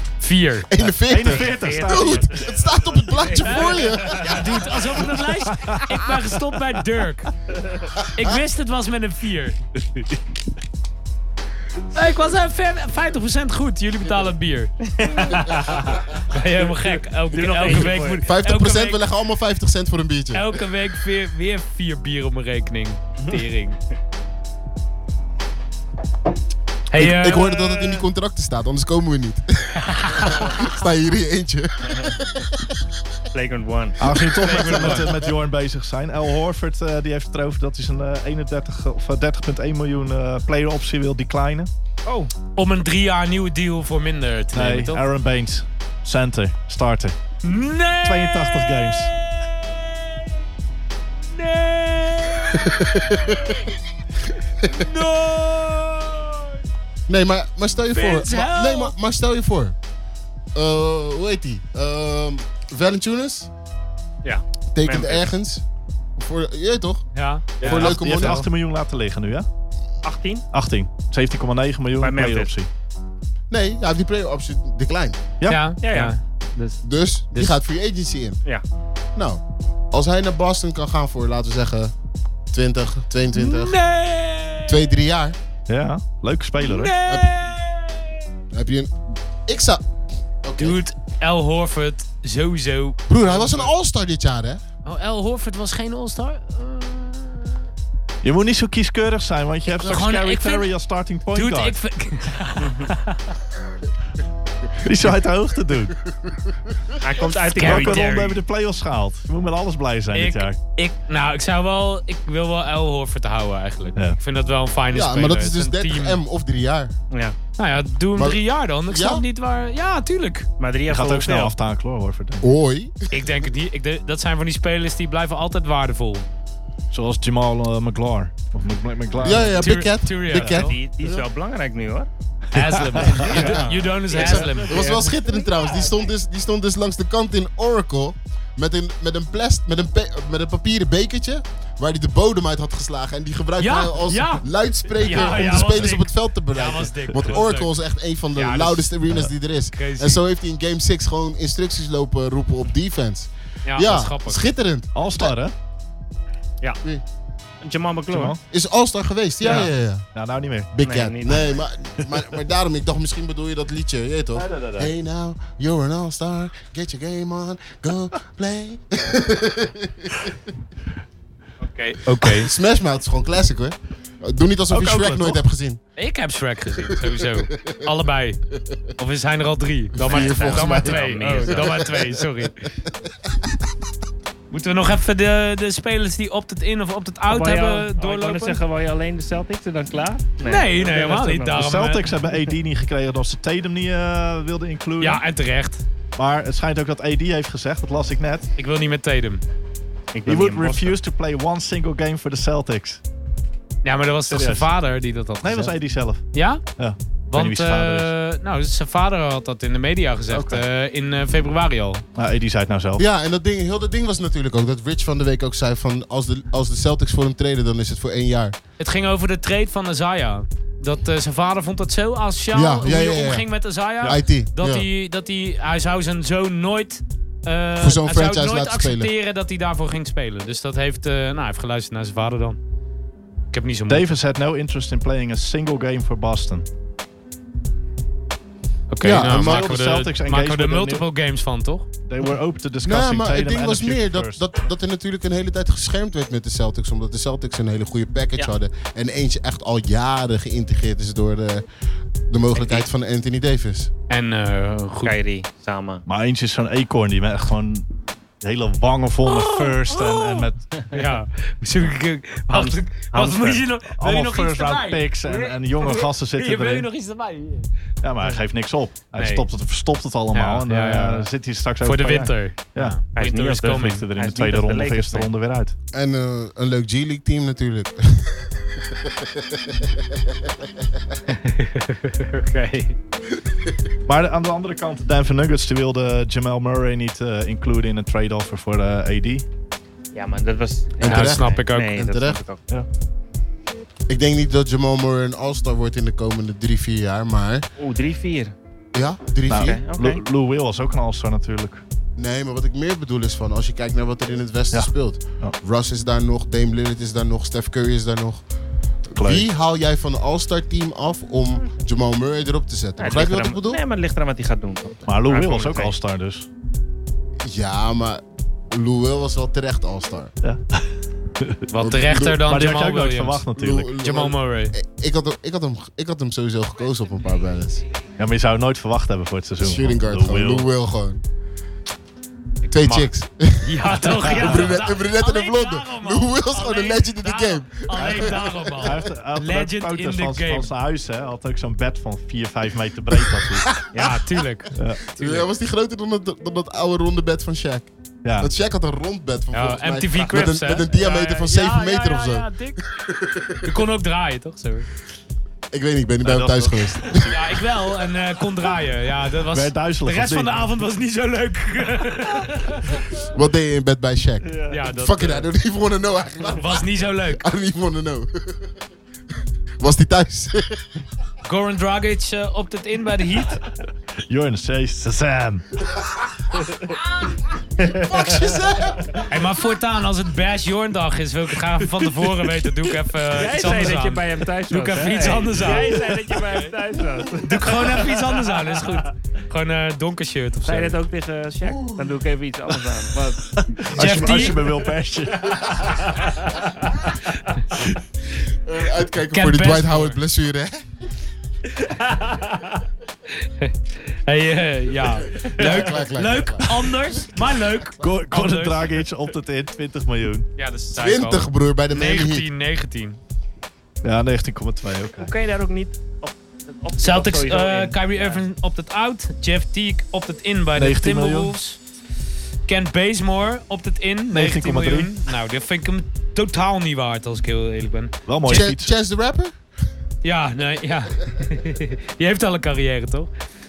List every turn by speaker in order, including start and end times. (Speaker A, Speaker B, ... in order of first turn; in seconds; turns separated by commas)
Speaker A: 0.2-0.7, Speaker B: 0.7-4.8, Speaker C: 0.8-2.4, Speaker D: 1.1-4.7, Speaker A: 3.5-7.3, Speaker A: 8.1-9.6, Speaker C: 9.9-10.2, Speaker A: 11.9-19.0, Speaker D: 14.9-18.2, Speaker B: 18.2-20.4, Speaker A: 20.3-23.8, Speaker A: 26.9-27.5, Speaker B: 26.9-32.8, Speaker D: 27.5-28.0, Speaker A: 29.8-30.6, Speaker D: 31.9-32.1, Speaker D: 33.3-34.1, Speaker C: 34.0-41.7, Speaker A: 34.4-35.1, Speaker D: 42.0-42.3, Speaker A: 42.5-45.0, Speaker C: 44.5-47.1, Speaker A: 47.4-50.3, Speaker C: 48.0-49.1, Speaker A: 51.3-53.7, Speaker B: 52.5-53.6, Speaker A: 54.6-56.6, Speaker B: 57.1-59.8, Speaker A: 57.9-58.9, Speaker B: 60.5-63.5, Speaker D: 64.2-65.3, Speaker B: 64.7-65.6, Speaker B: 66.2-67.0, Speaker A: 67.1-68.5, Speaker B: 67.6-68.4, Speaker C: 67.6-69.5, Speaker D: 70.0-70.4, Speaker C: 70.5-72.7, Speaker D: 72.0-72.5, Speaker B: 73.5-75.2, Speaker A: 75.5-77.6, Speaker D: 75.8-76.1, Speaker B: 76.8-78.4, Speaker B: 79.2-81.9, Speaker B: 82.5-83.8, Speaker A: 83.3-84.8, Speaker B: 84.7-85.4, Speaker C: 85.7-86.9, Speaker A: 86.6-88.1, Speaker B: 88.5-88.9, Speaker B: 89.5-89.8, Speaker B: 90.4-90.8, Speaker A: 90.6-93.7, Speaker B: 93.1-94.6, Speaker A: 94.8-97.6, Speaker C: 98.2-101.8, Speaker A: 99.7-100.7, Speaker A: 101.3-103.3, Speaker D: 102.6-102.9, Speaker C: 104.8-105.9, Speaker B: 106.2-107.0, Speaker D: 107.0-108.4, Speaker C: 107.5-110.6, Speaker A: 107.6-108.0, Speaker A: 110.1-116.2, Speaker B: 114.9-116.9, Speaker D: 117.1-117.3, Speaker A: 117.6-120.5, Speaker B: 118.2-119.2, Speaker D: 120.6-121.5, Speaker C: 120.9-122.5, Speaker B: 122.4-123.1, Speaker A: 123.1-126.3, Speaker C: 126.9-129.8, Speaker B: 129.2-131.2, Speaker A: 129.6-130.8, Speaker D: 130.4-132.1, Speaker A: 132.5-135.0, Speaker C: 132.5-133.4, Speaker D: 133.2-135.4, Speaker B: 133.2-155.3, Speaker A: 143.6-147.7, Speaker C: 145.1-145.9, Speaker A: 148.3-148.9, Speaker A: 149.7-150.2, Speaker A: 153.7-154.5, Speaker C: 154.9-155.5, Speaker D: 157.6-158.4, Speaker C: 158.1-158.4, Speaker B: 158.5-160.1, Speaker C: 159.4-160.7, Speaker B: 160.7-170.4, Speaker D: 160.8-161.5, Speaker C: 164.3-164.9, Speaker A: 171.6-172.5, Speaker B: 172.2-175.8, Speaker C: 174.7-175.4, Speaker A: 176.0-178.4, Speaker B: 177.0-177.8, Speaker A: 179.0-182.7, Speaker B: 179.9-182.2, Speaker D: 180.0-181.9, Speaker A: 184.5-188.6, Speaker D: 187.3-191.7, Speaker A: 190.4-192.1, Speaker C: 191.6-195.2, Speaker A: 195.0-195.8, Speaker C: 196.2-198.5, Speaker A: 198.6-199.4, Speaker D: 200.1-201.0, Speaker C: 200.2-203.0, Speaker A: 203.8-205.8, Speaker C: 204.3-204.7, Speaker C: 205.4-206.2, Speaker A: 206.3-206.6, Speaker C: 206.7-208.1, Speaker A: 207.3-212.0, Speaker C: 210.3-210.6, Speaker C: 212.1-213.0, Speaker B: 213.0-218.6, Speaker A: 218.8-232.6, Speaker B: 222.5-224.9, Speaker B: 227.8-229.1, Speaker A: 233.5-234.1, Speaker C: 233.9-236.7, Speaker A: 238.9-241.9, Speaker B: 239.0-239.8, Speaker C: 239.0-241.1, Speaker C: 242.0-244.4, Speaker B: 242.8-251.6, Speaker B: 252.3-253.9, Speaker D: 252.5-252.9, Speaker A: 254.1-255.1, Speaker D: 255.0-256.0, Speaker C: 256.1-257.9, Speaker C: 258.4-260.7, Speaker A: 259.2-267.7, Speaker D: 262.5-263.7, Speaker C: 263.9-266.9, Speaker C: 268.0-275.7, Speaker A: 269.1-269.4, Speaker A: 270.3-271.3, Speaker A: 271.8-274.1, Speaker D: 273.1-275.3, Speaker B: 275.9-280.0, Speaker A: 281.3-282.9, Speaker C: 284.1-289.4, Speaker D: 290.1-292.6, Speaker B: 291.0-292.4, Speaker A: 291.0-292.0, Speaker B: 294.1-297.6, Speaker D: 297.8-298.5, Speaker B: 298.9-299.8, Speaker C: 299.5-301.8, Speaker D: 299.5-300.2, Speaker B: 302.2-308.4, Speaker C: 304.7-305.6, Speaker B: 309.1-313.8, Speaker C: 309.1-309.5, Speaker D: 313.0-315.9, Speaker C: 315.1-316.5, Speaker B: 317.4-320.3, Speaker C: 320.4-321.6, Speaker A: 321.7-323.4, Speaker B: 321.8-322.4, Speaker C: 322.4-323.9, Speaker B: 323.6-327.8, Speaker A: 324.0-324.7, Speaker C: 328.2-330.7, Speaker B: 329.6-331.2, Speaker B: 332.7-338.7, Speaker A: 332.8-333.1, Speaker A: 333.6-340.7, Speaker C: 337.9-343.7, Speaker B: 343.4-344.2, Speaker A: 343.9-345.5, Speaker C: 344.7-345.0, Speaker B: 345.2-353.7, Speaker C: 348.2-348.5, Speaker A: 349.5-352.8, Speaker A: 353.6-354.9, Speaker B: 355.7-357.3, Speaker C: 356.2-357.4, Speaker A: 357.2-363.0, Speaker C: 359.5-360.6, Speaker B: 363.3-368.7, Speaker D: 364.4-364.8, Speaker A: 364.7-365.5, Speaker A: 366.6-367.4, Speaker B: 369.8-370.8, Speaker A: 371.4-373.6, Speaker C: 374.2-375.6, Speaker D: 376.7-376.9, Speaker D: 377.8-378.4, Speaker B: 377.8-379.3, Speaker A: 379.3-386.0, Speaker D: 383.3-389.1, Speaker A: 387.4-391.0, Speaker D: 390.6-394.6, Speaker B: 391.6-392.1, Speaker C: 393.5-396.1, Speaker A: 393.9-394.6, Speaker A: 397.3-397.8, Speaker B: 398.5-400.8, Speaker A: 399.3-400.2, Speaker D: 402.0-402.7, Speaker A: 403.3-409.0, Speaker B: 405.4-407.7, Speaker C: 408.0-410.5, Speaker A: 410.6-413.2, Speaker B: 410.9-412.4, Speaker C: 414.0-415.3, Speaker D: 415.1-418.4, Speaker A: 417.0-421.8, Speaker C: 420.8-421.5, Speaker A: 422.7-428.6, Speaker C: 424.3-425.1, Speaker C: 428.2-428.9, Speaker B: 428.5-429.6, Speaker A: 430.2-433.3